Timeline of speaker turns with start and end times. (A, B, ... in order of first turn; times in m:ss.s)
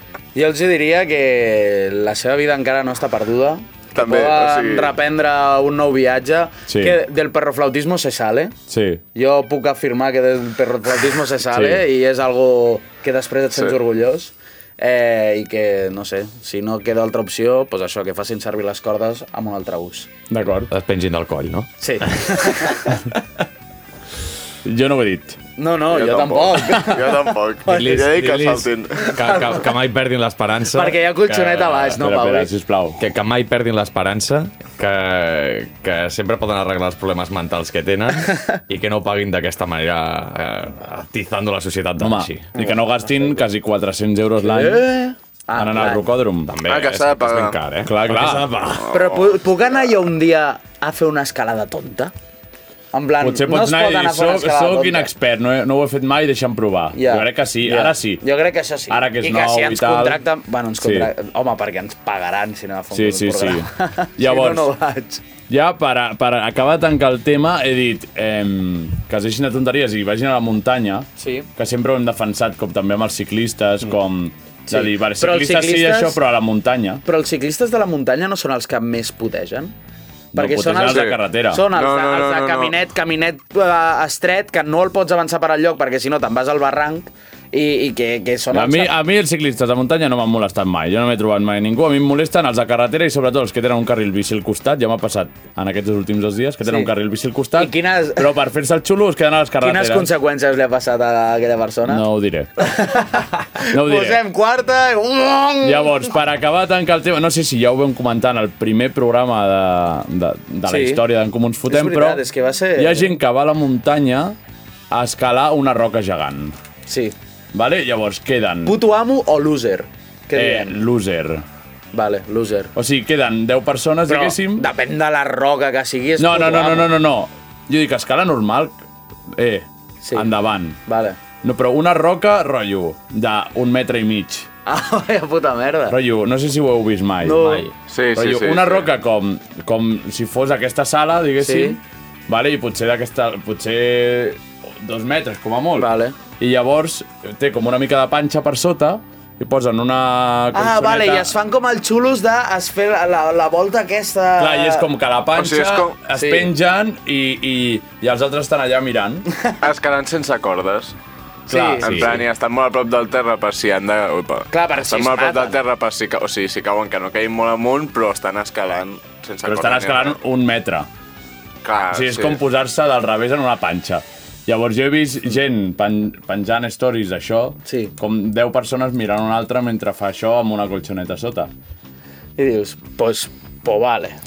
0:00.3-0:08.5 A
0:03.9-0:04.9 B
0:06.7-0:07.0 C
0:08.7-0:09.0 C
0:09.1-0:20.1 A
0:11.5-0:11.8 C
0:20.3-0:20.7 C
0:20.7-0:23.0 D
0:21.8-0:22.9 A
0:24.6-0:25.4 C
0:25.6-0:28.1 A
0:25.9-0:29.1 B
0:27.7-0:32.0 D
0:29.0-0:29.6 A
0:30.7-0:32.5 A
0:32.0-0:33.0 C
0:33.0-0:42.5 D
0:42.0-0:44.8 C
0:44.4-0:46.0 A
0:45.5-0:46.6 C
0:46.5-0:48.9 D
0:46.6-0:47.6 B
0:47.8-0:48.5 C
0:48.8-0:49.4 B
0:48.9-0:52.1 A
0:52.9-0:55.1 A
0:53.2-0:58.2 C
0:56.9-1:05.2 A
0:58.9-1:00.2 C
1:00.8-1:01.1 C
1:02.9-1:04.7 C
1:05.5-1:17.0 C
1:11.2-1:11.5 A
1:14.7-1:16.2 A
1:17.0-1:19.7 A
1:20.3-1:21.6 C
1:20.3-1:28.9 A
1:20.8-1:22.7 B
1:28.5-1:40.1 C
1:36.6-1:36.9 A
1:37.6-1:38.3 A
1:39.6-1:42.0 A
1:41.8-1:42.7 C
1:42.6-1:46.1 A
1:43.7-1:44.2 C
1:45.6-1:52.2 C
1:50.6-1:51.0 A
1:51.7-1:53.1 A
1:52.7-1:54.4 C
1:54.9-1:56.5 C
1:56.8-1:57.1 A
1:57.5-1:58.8 C
1:58.6-2:00.8 A
2:00.3-2:01.4 C
2:01.9-2:02.7 A
2:02.7-2:04.7 C
2:04.1-2:06.9 A
2:06.2-2:08.8 C
2:09.3-2:10.8 C
2:10.0-2:10.3 A
2:10.8-2:11.2 A
2:11.4-2:14.5 C
2:14.6-2:16.0 A
2:15.9-2:31.3 C
2:17.2-2:17.7 A
2:17.9-2:18.9 B
2:21.4-2:21.8 A
2:25.8-2:26.1 A
2:30.5-2:34.8 A
2:34.4-2:39.3 C
2:35.3-2:35.9 B
2:36.1-2:36.5 A
2:39.6-2:40.9 B
2:41.5-2:41.8 A
2:41.5-2:41.9 C
2:41.8-2:50.1 B
2:41.8-2:42.2 D
2:44.5-2:45.6 A
2:49.4-2:50.9 C
2:51.6-2:52.4 B
2:51.9-3:01.5 C
2:57.6-2:57.9 A
3:02.4-3:04.2 A